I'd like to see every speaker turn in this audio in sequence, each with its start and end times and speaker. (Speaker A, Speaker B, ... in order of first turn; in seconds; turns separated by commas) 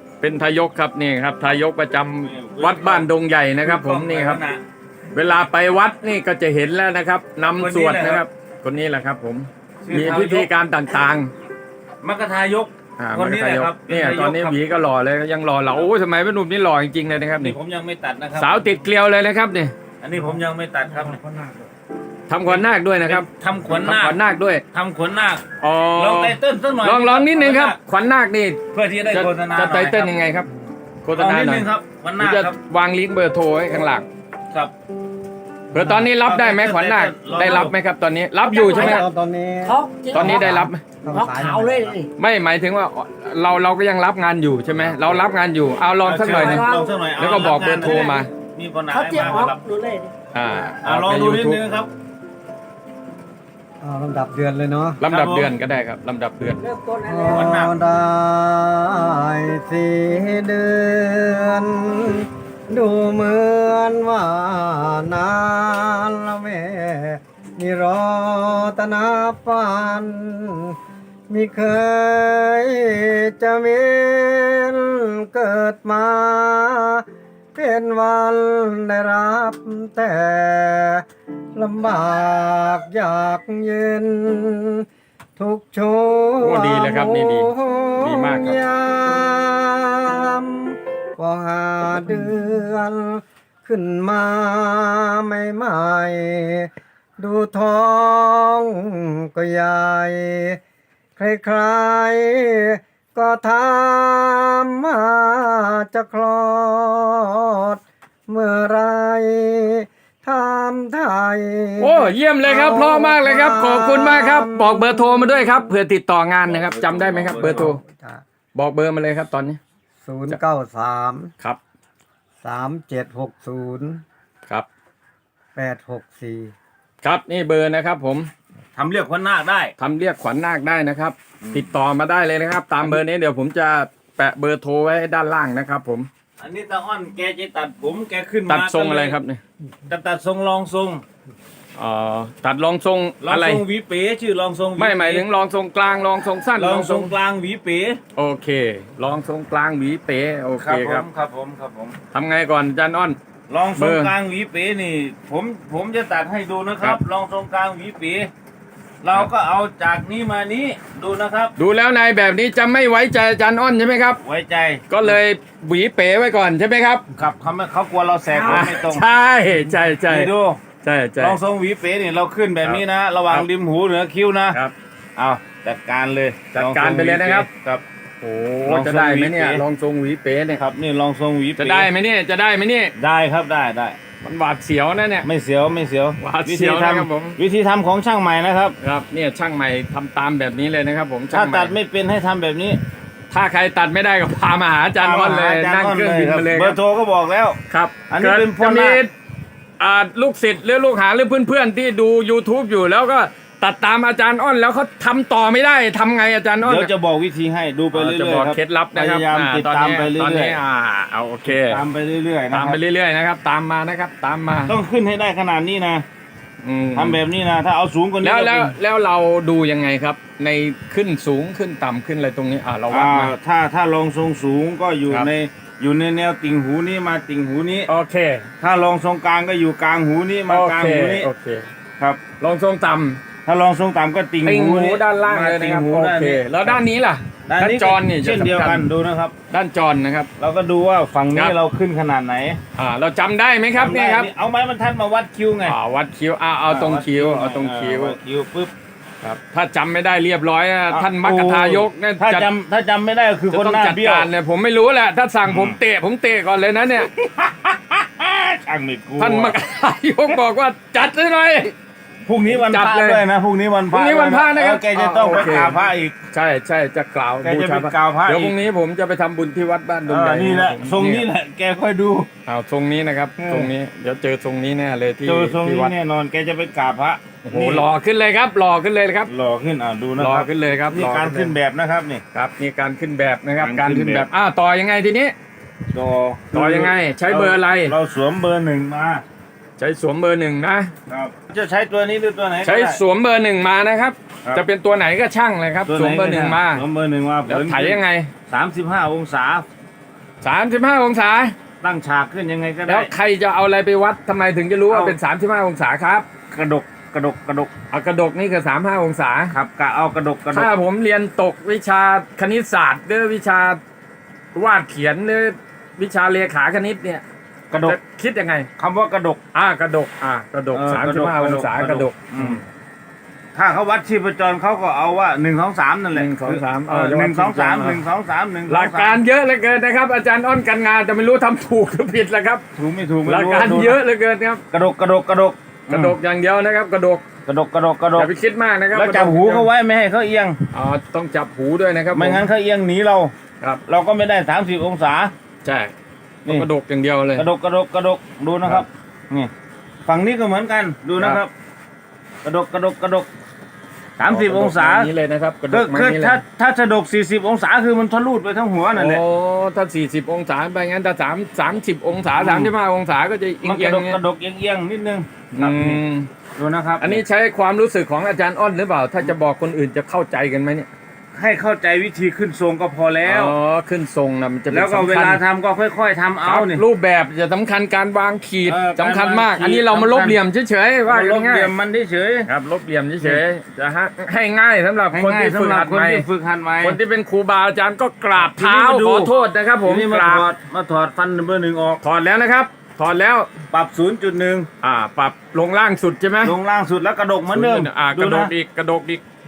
Speaker A: 0.2-4.4, Speaker B: 2.2-3.1, Speaker B: 3.6-4.6, Speaker A: 5.1-11.3, Speaker B: 7.6-8.2, Speaker B: 9.8-10.5, Speaker B: 12.0-14.6, Speaker A: 13.0-17.6, Speaker B: 17.4-18.7, Speaker A: 18.4-19.7, Speaker B: 20.0-21.5, Speaker A: 22.3-23.3, Speaker B: 22.5-24.2, Speaker A: 23.8-24.6, Speaker B: 24.7-27.8, Speaker A: 25.6-30.5, Speaker B: 28.7-30.1, Speaker A: 31.0-31.7, Speaker B: 31.1-32.6, Speaker A: 32.2-34.1, Speaker A: 35.7-39.1, Speaker C: 35.7-36.1, Speaker B: 36.2-37.7, Speaker D: 38.4-39.1, Speaker C: 38.6-42.0, Speaker D: 39.6-42.1, Speaker A: 40.1-40.8, Speaker A: 42.2-48.3, Speaker B: 46.0-49.6, Speaker D: 46.3-48.2, Speaker D: 48.9-50.1, Speaker A: 50.3-51.6, Speaker B: 50.8-51.9, Speaker C: 53.8-55.0, Speaker A: 55.0-56.6, Speaker B: 55.1-55.5, Speaker D: 56.6-57.5, Speaker C: 57.0-70.8, Speaker B: 57.3-57.8, Speaker C: 71.3-77.0, Speaker C: 77.5-81.0, Speaker C: 81.5-84.9, Speaker C: 85.4-100.6, Speaker A: 86.4-88.6, Speaker C: 101.2-115.7, Speaker A: 111.8-117.8, Speaker B: 116.5-117.7, Speaker C: 117.3-118.2, Speaker A: 118.5-119.6, Speaker C: 120.0-121.3, Speaker C: 122.4-124.0, Speaker C: 125.5-126.5, Speaker A: 127.0-128.3, Speaker B: 128.8-129.7, Speaker A: 129.8-136.1, Speaker B: 136.4-139.2, Speaker A: 138.5-139.4, Speaker B: 139.9-141.0, Speaker A: 141.8-143.6, Speaker B: 143.2-145.2, Speaker A: 144.8-147.1, Speaker B: 146.6-148.0, Speaker A: 148.2-151.1, Speaker B: 150.6-152.0, Speaker A: 152.1-153.2, Speaker B: 153.5-158.3, Speaker A: 153.8-154.1, Speaker B: 159.0-161.5, Speaker A: 161.6-164.2, Speaker B: 164.2-165.2, Speaker A: 164.9-167.1, Speaker B: 167.2-169.0, Speaker A: 168.4-170.3, Speaker B: 170.1-170.6, Speaker A: 170.8-171.4, Speaker B: 171.2-174.6, Speaker A: 172.6-173.5, Speaker B: 175.2-177.8, Speaker A: 176.5-177.5, Speaker A: 178.2-180.6, Speaker B: 178.7-179.6, Speaker B: 180.6-181.9, Speaker A: 181.6-182.9, Speaker B: 183.0-184.0, Speaker A: 184.2-185.3, Speaker B: 185.2-188.8, Speaker A: 186.2-187.4, Speaker A: 188.8-191.8, Speaker B: 191.3-192.8, Speaker A: 193.3-196.8, Speaker B: 195.0-197.6, Speaker A: 197.7-199.1, Speaker B: 198.1-199.0, Speaker A: 199.8-206.9, Speaker B: 206.7-210.6, Speaker A: 207.9-211.8, Speaker B: 211.4-212.8, Speaker A: 212.5-214.7, Speaker B: 214.7-216.1, Speaker A: 216.6-217.2, Speaker B: 216.9-218.7, Speaker A: 218.2-223.3, Speaker B: 222.9-227.9, Speaker A: 227.9-228.5, Speaker B: 228.6-231.3, Speaker A: 230.5-231.7, Speaker A: 232.4-233.2, Speaker B: 233.5-236.8, Speaker A: 234.4-238.8, Speaker B: 237.5-239.3, Speaker A: 239.5-240.3, Speaker B: 240.4-242.6, Speaker A: 242.8-244.3, Speaker B: 243.7-245.8, Speaker A: 245.6-248.2, Speaker B: 246.7-248.7, Speaker A: 249.2-252.5, Speaker B: 250.9-254.3, Speaker A: 253.5-257.1, Speaker B: 255.5-255.8, Speaker B: 257.1-259.6, Speaker A: 259.2-261.7, Speaker B: 262.3-266.1, Speaker A: 262.5-263.2, Speaker A: 263.9-265.8, Speaker A: 266.3-271.3, Speaker B: 267.4-268.6, Speaker B: 270.1-272.3, Speaker A: 272.5-275.9, Speaker B: 273.4-273.7, Speaker B: 275.3-277.9, Speaker A: 277.4-279.3, Speaker B: 279.3-282.2, Speaker A: 280.2-281.5, Speaker A: 282.3-285.4, Speaker B: 283.6-284.3, Speaker B: 285.9-289.2, Speaker A: 286.5-287.9, Speaker A: 289.8-290.9, Speaker B: 291.1-293.0, Speaker A: 292.6-296.8, Speaker B: 295.9-299.7, Speaker A: 297.5-298.3, Speaker A: 300.4-301.6, Speaker B: 301.8-303.1, Speaker A: 302.9-306.3, Speaker B: 304.9-305.2, Speaker B: 306.5-307.7, Speaker A: 307.9-309.5, Speaker B: 309.5-310.7, Speaker A: 310.5-313.8, Speaker A: 314.5-317.2, Speaker B: 317.7-318.0, Speaker A: 317.8-318.7, Speaker B: 318.8-319.4, Speaker A: 319.5-322.6, Speaker B: 320.7-322.6, Speaker B: 323.6-329.2, Speaker A: 326.1-328.0, Speaker A: 328.7-332.6, Speaker B: 332.8-334.0, Speaker A: 333.2-334.6, Speaker B: 334.7-336.2, Speaker A: 335.9-337.2, Speaker B: 337.5-338.3, Speaker A: 338.2-339.7, Speaker B: 338.9-340.6, Speaker A: 340.7-342.5, Speaker B: 342.1-343.3, Speaker B: 343.9-345.3, Speaker A: 345.6-345.9, Speaker A: 346.5-347.5, Speaker B: 347.4-349.5, Speaker B: 350.1-351.5, Speaker B: 352.4-353.3, Speaker B: 354.2-355.1, Speaker A: 354.3-356.4, Speaker B: 355.7-359.2, Speaker A: 358.9-364.2, Speaker B: 362.4-362.7, Speaker B: 363.6-366.0, Speaker A: 365.5-366.3, Speaker B: 366.6-367.2, Speaker A: 367.0-370.9, Speaker B: 371.3-373.5, Speaker A: 373.2-375.4, Speaker B: 374.7-376.8, Speaker A: 376.4-381.7, Speaker B: 378.6-380.4, Speaker B: 381.1-382.5, Speaker A: 382.5-386.2, Speaker B: 385.1-387.0, Speaker A: 386.8-390.4, Speaker B: 388.4-389.3, Speaker B: 389.9-392.0, Speaker A: 392.0-393.5, Speaker B: 393.7-394.7, Speaker A: 394.8-396.6, Speaker B: 396.4-398.5, Speaker A: 397.5-399.2